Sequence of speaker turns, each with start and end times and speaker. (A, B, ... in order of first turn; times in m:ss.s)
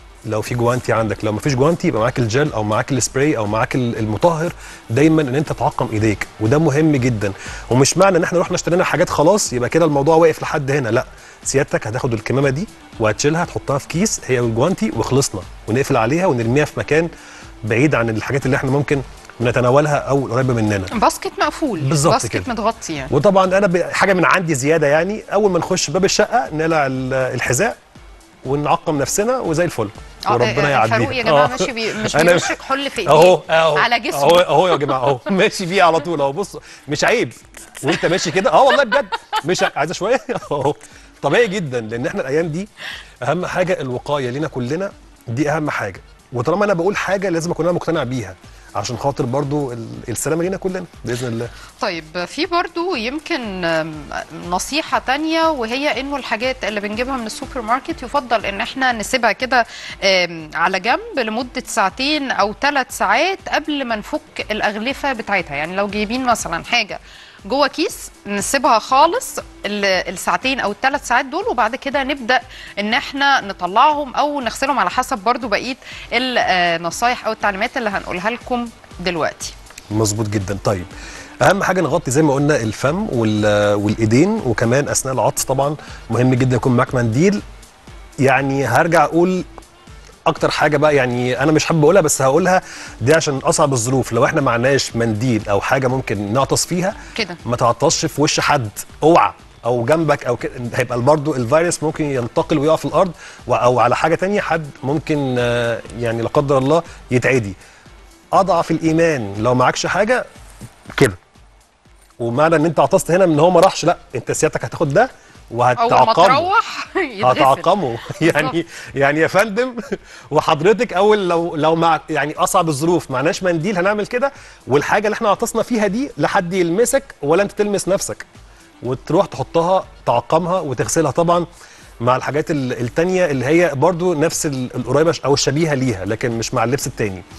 0:00.3-0:17.1 A
0:17.6-0:20.9 A
0:20.9-0:23.1 B
0:21.8-0:22.5 A
0:23.1-0:27.8 A
0:28.4-0:42.7 A
0:30.2-0:35.2 B
0:37.9-0:38.2 B
0:38.7-0:39.4 B
0:43.2-0:51.5 A
0:51.8-1:19.5 B
1:19.9-1:20.9 A
1:21.4-1:27.4 A
1:28.2-1:29.4 A
1:30.2-1:47.6 A
1:48.3-1:50.2 A
1:50.9-1:51.2 A
1:52.2-1:56.5 A
1:55.8-1:58.5 B
1:57.2-2:08.2 A
2:08.8-2:11.4 A
2:12.0-2:17.2 A